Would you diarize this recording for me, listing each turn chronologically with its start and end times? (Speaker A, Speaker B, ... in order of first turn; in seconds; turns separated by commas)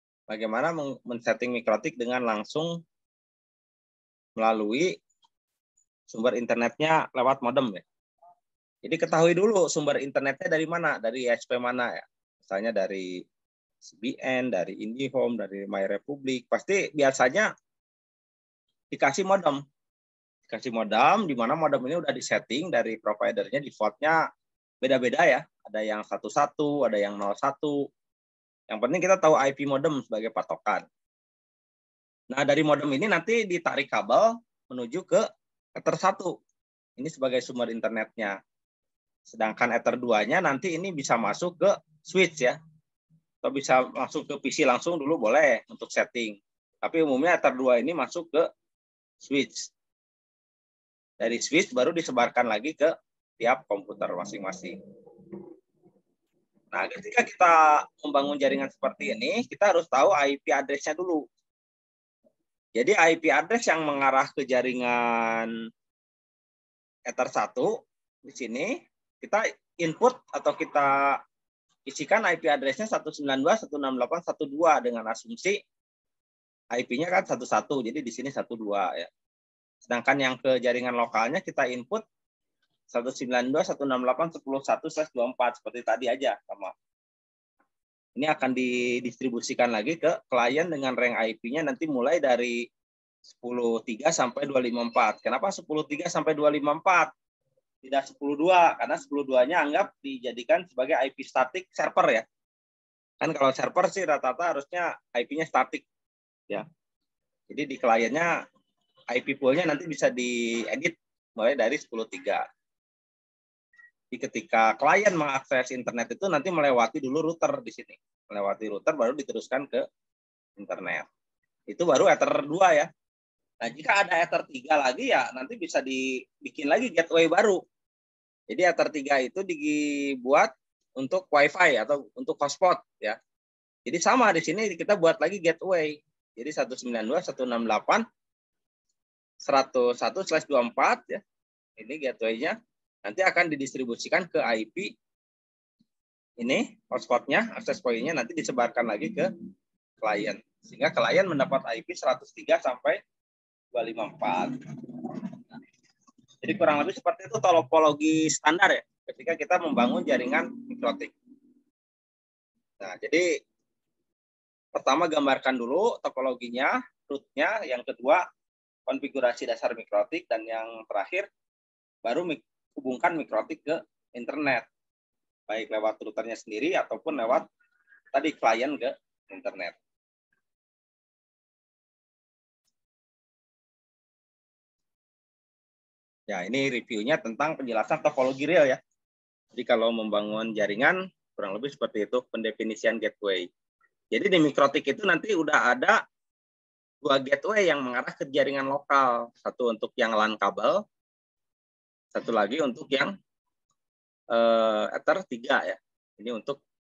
Speaker A: 0.3-2.8, Speaker A: 4.4-4.9, Speaker A: 6.1-7.8, Speaker A: 8.8-13.2, Speaker A: 13.8-17.5, Speaker A: 18.9-19.6, Speaker A: 20.5-24.2, Speaker A: 24.8-27.9, Speaker A: 28.7-30.8, Speaker A: 32.3-35.2, Speaker A: 35.8-36.3, Speaker A: 37.0-38.4, Speaker A: 39.3-42.5, Speaker A: 43.4-48.4, Speaker A: 49.2-49.7, Speaker A: 51.2-54.8, Speaker A: 56.7-61.2, Speaker A: 62.8-65.5, Speaker A: 67.1-67.7, Speaker A: 68.2-71.2, Speaker A: 71.9-75.6, Speaker A: 76.7-79.1, Speaker A: 79.8-82.0, Speaker A: 82.9-86.7, Speaker A: 88.2-92.6, Speaker A: 93.3-97.1, Speaker A: 97.8-102.2, Speaker A: 103.2-105.8, Speaker A: 107.5-108.3, Speaker A: 109.1-112.4, Speaker A: 114.1-119.8, Speaker A: 120.6-121.1, Speaker A: 121.7-122.9, Speaker A: 123.6-127.6, Speaker A: 128.5-133.2, Speaker A: 133.8-138.0, Speaker A: 139.4-141.2, Speaker A: 141.8-144.9, Speaker A: 146.4-149.3, Speaker A: 150.0-153.0, Speaker A: 153.7-155.4, Speaker A: 156.4-161.1, Speaker A: 162.8-163.2, Speaker A: 164.7-168.2, Speaker A: 168.9-171.3, Speaker A: 172.0-174.7, Speaker A: 175.5-177.4, Speaker A: 178.1-179.8, Speaker A: 186.3-188.8, Speaker A: 189.6-193.5, Speaker A: 194.1-195.9, Speaker A: 197.0-200.8, Speaker A: 202.1-203.1, Speaker A: 204.3-206.6